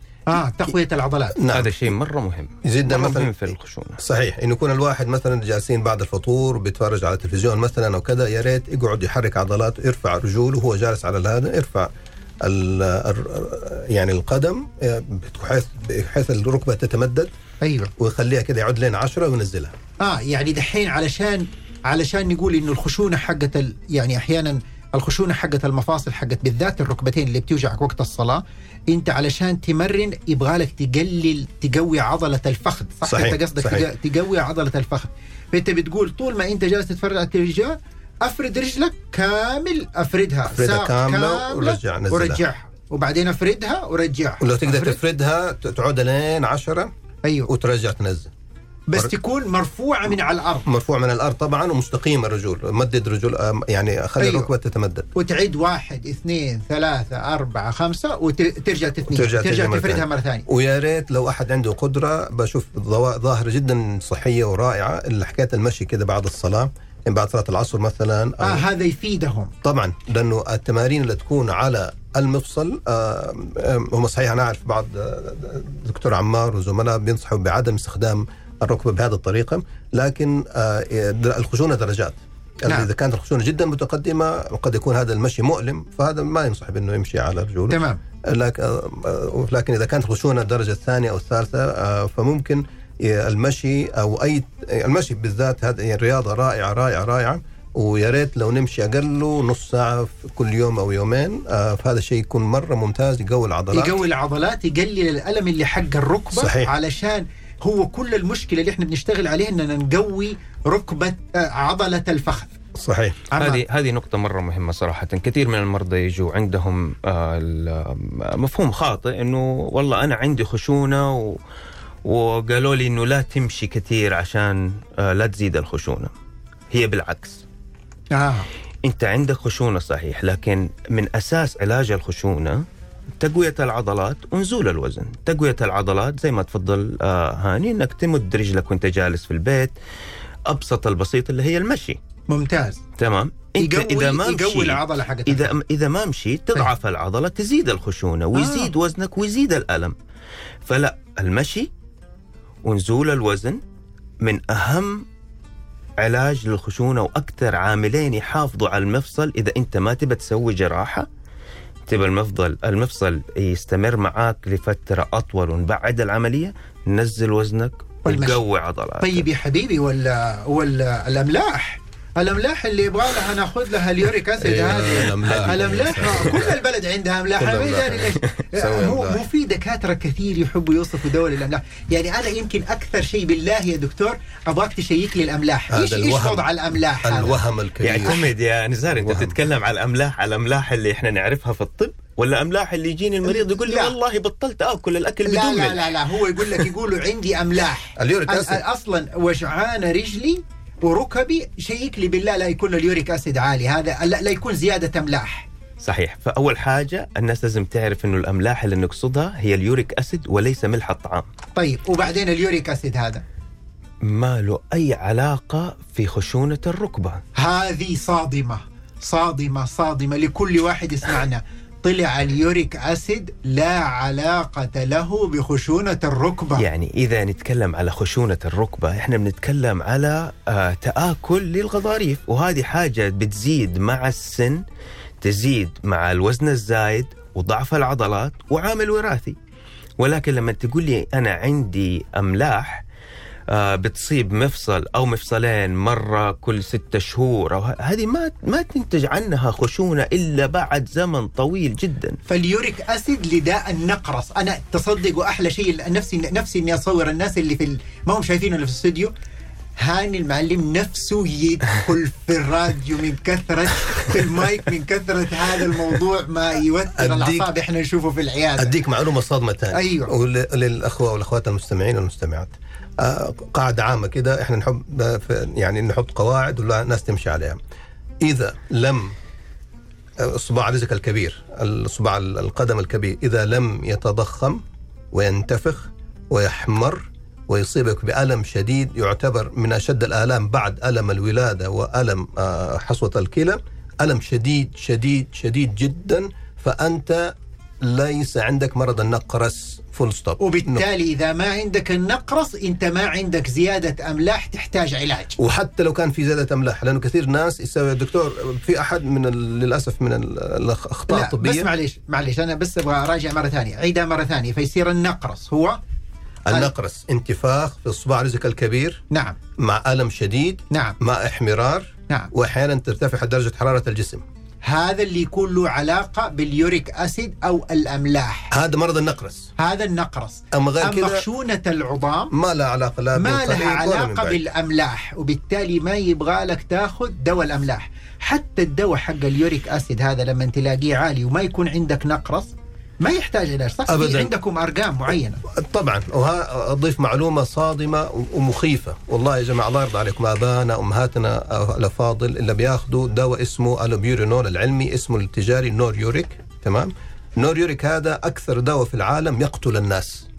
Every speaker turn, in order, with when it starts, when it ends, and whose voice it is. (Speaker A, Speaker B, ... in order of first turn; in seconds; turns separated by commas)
Speaker A: 0.3-1.4, Speaker B: 1.4-1.9, Speaker C: 1.5-4.0, Speaker B: 2.6-11.9, Speaker B: 12.4-17.3, Speaker A: 17.6-17.9, Speaker B: 18.0-19.7, Speaker A: 20.0-45.0, Speaker B: 33.0-33.9, Speaker B: 40.5-42.4, Speaker B: 44.4-46.9, Speaker A: 47.2-47.5, Speaker B: 47.5-48.3, Speaker A: 48.9-50.6, Speaker B: 50.6-55.1, Speaker A: 54.2-54.5, Speaker A: 55.1-60.5, Speaker B: 59.1-68.6, Speaker A: 68.4-69.5, Speaker B: 69.6-103.9, Speaker A: 87.7-88.0, Speaker A: 103.7-112.5, Speaker B: 106.3-106.7, Speaker B: 112.8-113.2, Speaker A: 113.3-113.6, Speaker C: 113.4-121.4, Speaker C: 122.0-126.1, Speaker C: 126.7-127.4, Speaker A: 128.1-128.5, Speaker C: 128.8-132.6, Speaker C: 133.2-139.7, Speaker C: 140.5-142.0, Speaker A: 142.3-142.8, Speaker C: 143.0-149.9, Speaker A: 143.6-145.5, Speaker A: 148.3-148.7, Speaker C: 150.7-151.7, Speaker C: 152.6-153.6, Speaker C: 154.2-155.1, Speaker C: 156.0-161.1, Speaker C: 161.9-169.2, Speaker A: 168.0-168.4, Speaker A: 169.0-187.4, Speaker B: 174.4-176.6, Speaker C: 175.2-175.5, Speaker B: 177.4-179.2, Speaker B: 185.7-186.5, Speaker B: 187.0-188.2, Speaker C: 187.8-195.9, Speaker B: 188.9-189.3, Speaker A: 193.2-193.9, Speaker A: 195.2-205.5, Speaker B: 198.0-198.6, Speaker C: 205.8-211.3, Speaker A: 211.6-213.2, Speaker C: 214.0-217.2, Speaker A: 217.4-226.6, Speaker C: 226.6-234.6, Speaker C: 235.2-239.4, Speaker C: 240.0-242.8, Speaker C: 243.5-252.2, Speaker A: 252.3-259.1, Speaker A: 259.8-268.7, Speaker B: 267.0-267.5, Speaker B: 268.6-277.6, Speaker A: 269.7-270.1, Speaker B: 278.2-279.1, Speaker B: 280.2-284.6, Speaker B: 285.1-300.9, Speaker A: 300.4-305.4, Speaker B: 305.4-311.7, Speaker A: 311.1-315.8, Speaker B: 316.5-319.0, Speaker A: 319.1-319.4, Speaker B: 319.6-324.2, Speaker A: 320.7-321.0, Speaker A: 324.7-328.5, Speaker B: 328.5-329.5, Speaker A: 329.6-332.3, Speaker B: 330.5-331.2, Speaker B: 332.3-334.4, Speaker A: 333.2-345.4, Speaker B: 343.9-344.3, Speaker B: 345.5-360.2